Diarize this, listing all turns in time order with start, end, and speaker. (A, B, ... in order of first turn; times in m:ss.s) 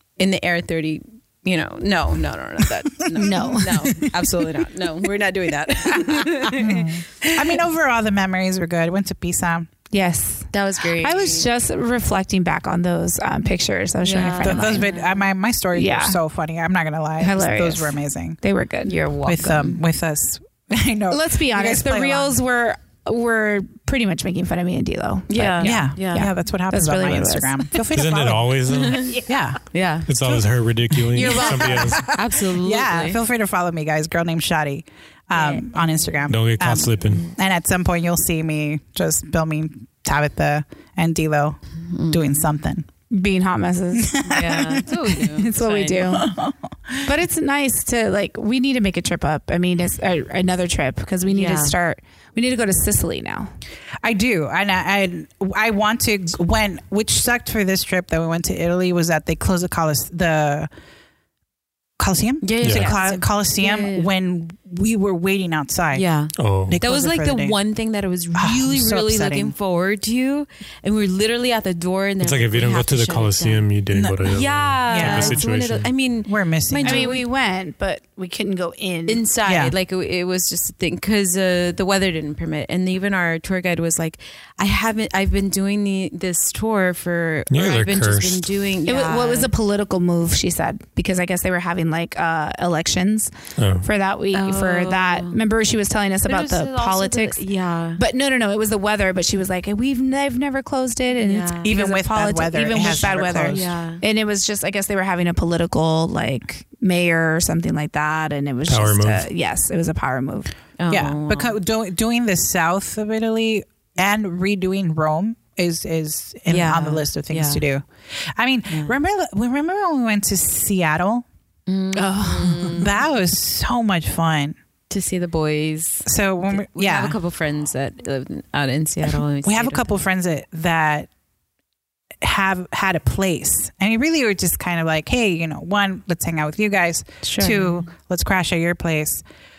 0:00.2-0:07.6 A
0:03.1-0:04.5 B
0:03.2-0:03.9 C
0:06.5-0:09.7 B
0:09.9-0:14.9 C
0:10.5-0:11.5 A
0:14.0-0:15.2 A
0:14.4-0:18.4 B
0:15.8-0:16.2 C
0:17.2-0:19.0 C
0:18.9-0:19.8 A
0:19.2-0:22.4 B
0:21.1-0:27.8 C
0:25.3-0:26.2 A
0:25.6-0:29.6 B
0:27.9-0:29.2 D
0:28.7-0:30.1 A
0:30.1-0:32.0 D
0:30.2-0:42.9 B
0:31.2-0:33.2 A
0:35.4-0:35.6 A
0:36.3-0:37.2 D
0:41.9-0:42.3 A
0:43.1-0:44.5 C
0:44.0-0:44.9 B
0:44.3-0:46.2 A
0:45.1-0:46.3 C
0:46.1-0:47.1 B
0:47.0-0:53.5 C
0:51.3-0:51.8 A
0:54.0-1:00.7 B
1:02.0-1:06.0 B
1:02.4-1:04.1 A
1:02.6-1:02.9 D
1:05.9-1:13.7 A
1:06.4-1:06.8 D
1:06.7-1:07.6 B
1:08.4-1:09.5 B
1:12.2-1:15.9 D
1:13.9-1:14.3 B
1:14.2-1:17.2 A
1:14.9-1:15.4 B
1:16.2-1:17.2 B
1:16.8-1:19.2 C
1:19.1-1:29.5 A
1:19.4-1:19.7 B
1:27.5-1:28.5 D
1:28.9-1:33.3 C
1:33.6-1:33.9 D
1:33.8-1:37.4 C
1:34.3-1:35.4 A
1:36.3-1:38.0 A
1:38.0-1:50.5 C
1:41.2-1:41.7 A
1:41.6-1:43.7 B
1:43.5-1:44.0 A
1:48.7-1:49.3 D
1:50.8-1:51.6 A
1:50.9-2:01.2 B
1:56.5-1:57.6 A
2:01.7-2:02.9 A
2:02.0-2:02.8 C
2:02.7-2:04.6 B
2:04.9-2:10.0 A
2:06.1-2:07.2 B
2:09.1-2:11.1 B
2:12.2-2:19.2 B
2:17.2-2:17.9 A